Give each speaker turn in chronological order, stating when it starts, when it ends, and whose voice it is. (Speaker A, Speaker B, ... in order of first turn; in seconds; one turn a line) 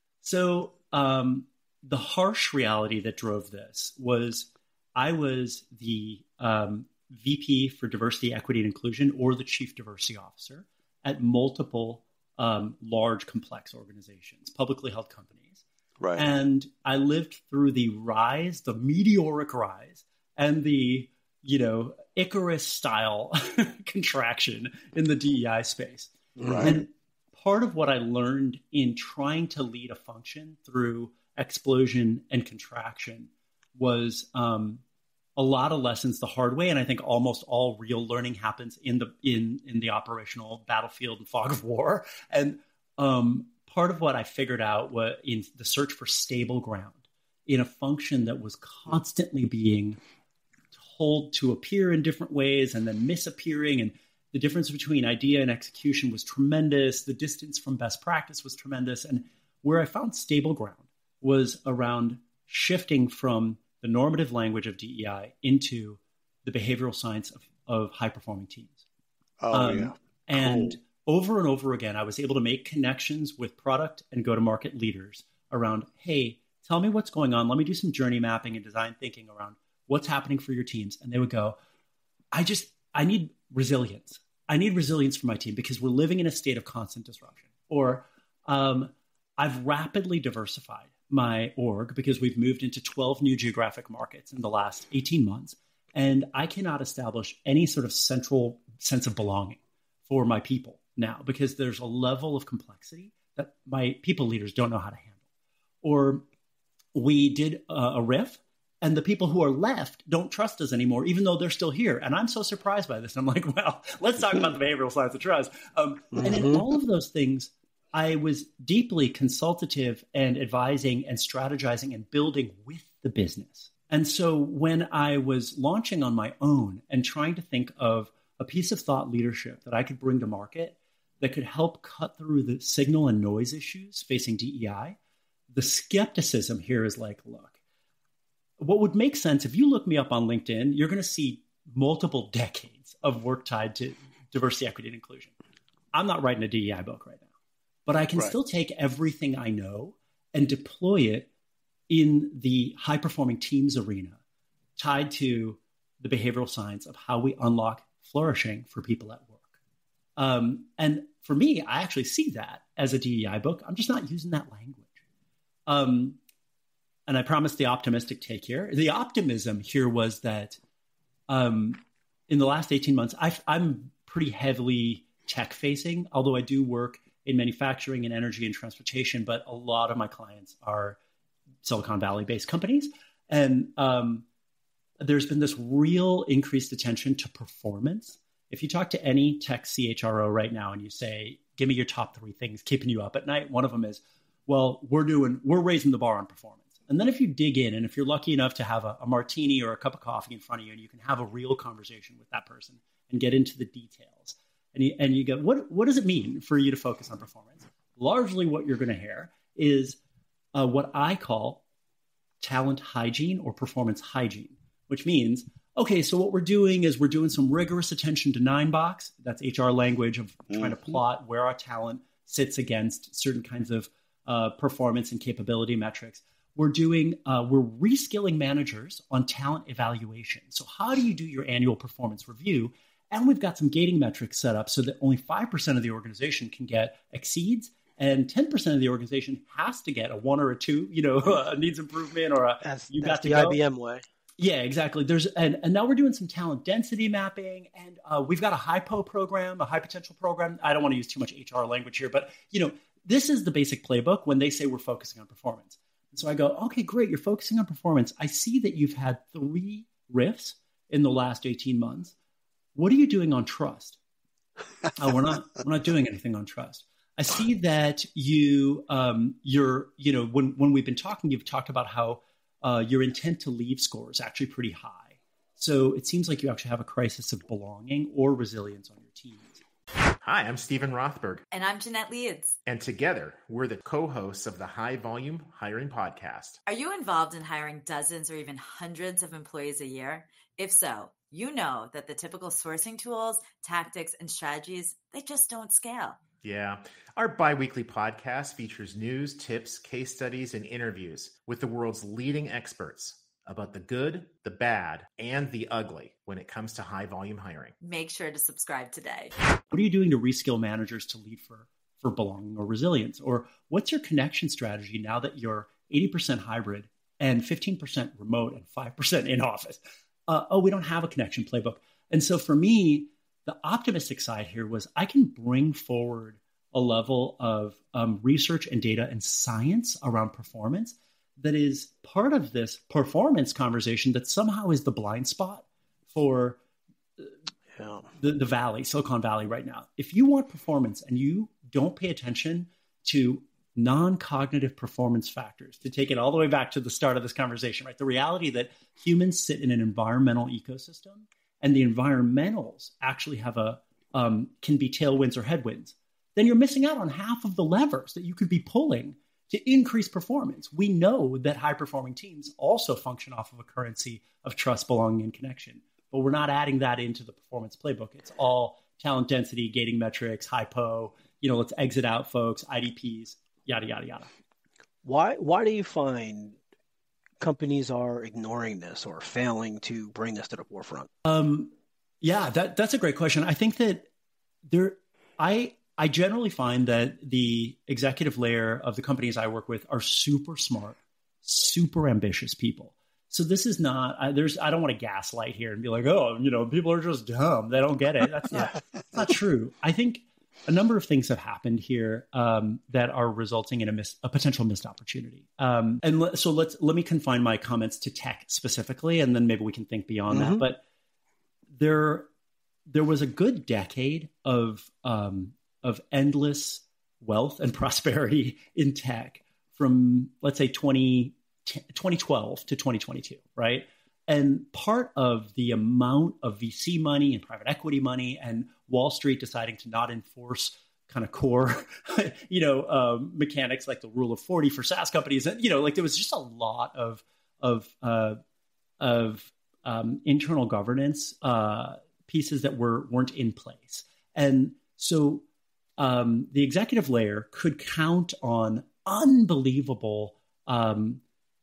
Speaker A: 0.2-15.6
Speaker B: 16.0-16.3
Speaker A: 16.2-34.8
Speaker C: 26.4-26.8
Speaker B: 26.4-26.8
Speaker A: 35.4-50.0
Speaker A: 50.8-68.8
Speaker B: 69.4-70.8
Speaker A: 69.5-81.6
Speaker A: 82.3-105.2
Speaker A: 105.8-106.2
Speaker A: 106.9-135.0
Speaker C: 116.1-116.6
Speaker A: 135.5-137.5
Speaker A: 138.6-145.3
Speaker A: 145.9-147.3
Speaker A: 147.9-151.3
Speaker A: 151.9-154.2
Speaker A: 154.8-159.4
Speaker A: 160.2-165.0
Speaker A: 165.7-166.2
Speaker A: 167.1-170.6
Speaker A: 171.3-181.0
Speaker A: 181.6-184.2
Speaker A: 185.0-210.0
Speaker A: 210.6-211.6
Speaker A: 212.4-243.6
Speaker B: 220.5-221.0
Speaker C: 242.6-244.1
Speaker A: 244.4-262.1
Speaker A: 262.8-264.0
Speaker A: 265.0-279.6
Speaker D: 280.2-281.4
Speaker E: 281.5-282.6
Speaker D: 282.7-286.6
Speaker E: 286.7-296.2
Speaker D: 296.4-307.8
Speaker E: 307.8-309.3
Speaker A: 309.7-336.6
Speaker C: 337.8-338.1
Speaker A: 338.2-374.3
Speaker C: 375.0-376.6
Speaker C: 377.4-381.1
Speaker A: 381.2-384.1
Speaker A: 384.7-410.8
Speaker C: 410.3-410.6
Speaker A: 411.7-412.3
Speaker A: 412.9-438.4
Speaker A: 439.0-445.4
Speaker A: 446.0-451.2